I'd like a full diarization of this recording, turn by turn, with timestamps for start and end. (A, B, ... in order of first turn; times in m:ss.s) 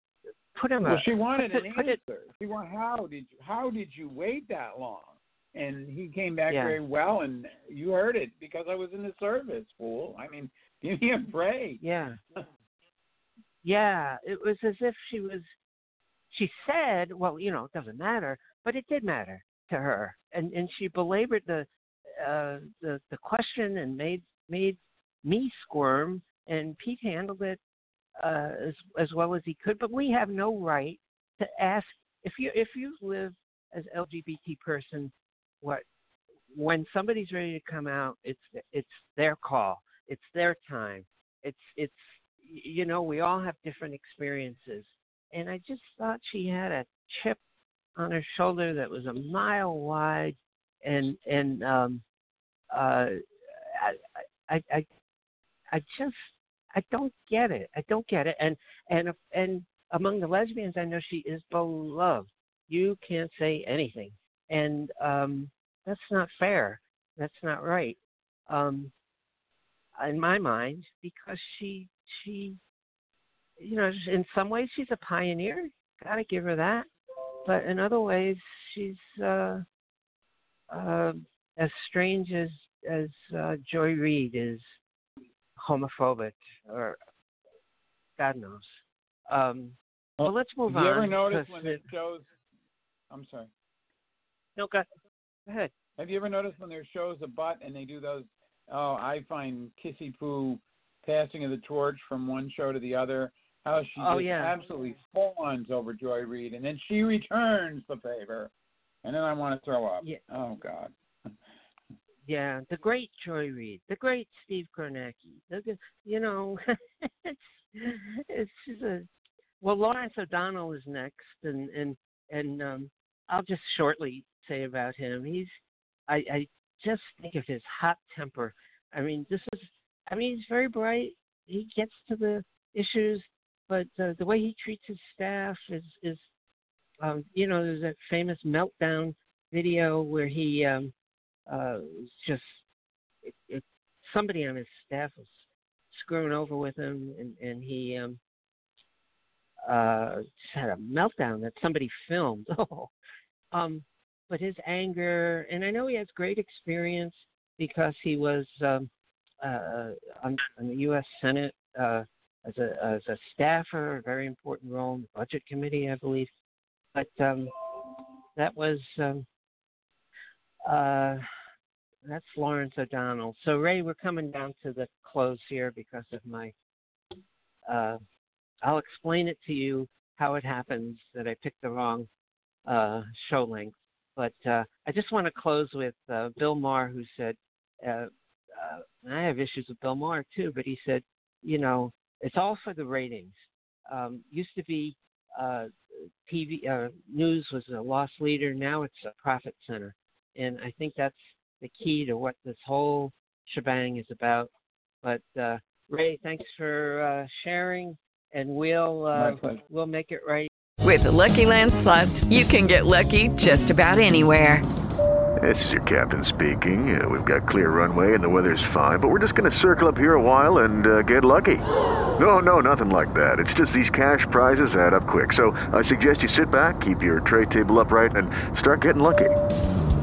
0:00.5-0:02.0 A
0:00.8-0:11.8 B
0:06.5-0:06.8 A
0:11.8-0:12.2 A
0:13.6-0:15.5 A
0:16.3-0:27.6 A
0:28.2-0:35.8 A
0:36.5-0:47.4 A
0:48.0-0:52.0 A
0:52.7-0:54.9 A
0:55.7-1:08.9 A
1:10.0-1:12.6 A
1:13.6-1:16.9 A
1:17.4-1:19.6 A
1:20.7-1:24.8 A
1:25.6-1:27.0 A
1:28.2-1:31.8 A
1:30.2-1:32.4 B
1:33.1-1:33.5 B
1:34.6-1:34.9 A
1:35.5-1:35.7 A
1:36.0-1:48.5 B
1:44.0-1:44.6 A
1:49.0-1:51.4 B
1:52.2-1:59.1 A
1:59.6-2:05.5 A
2:06.1-2:16.3 A
2:17.0-2:20.9 A
2:21.5-2:22.6 A
2:23.2-2:28.2 A
2:29.6-2:32.9 A
2:33.5-2:38.9 A
2:39.4-2:46.3 A
2:46.9-2:49.2 A
2:50.6-2:51.2 A
2:52.0-2:56.5 A
2:57.7-2:58.0 A
2:58.6-3:02.1 A
3:02.6-3:24.5 A
3:25.0-3:30.5 A
3:29.1-3:29.6 B
3:30.8-3:34.6 C
3:35.4-3:41.6 D
3:42.2-3:49.3 D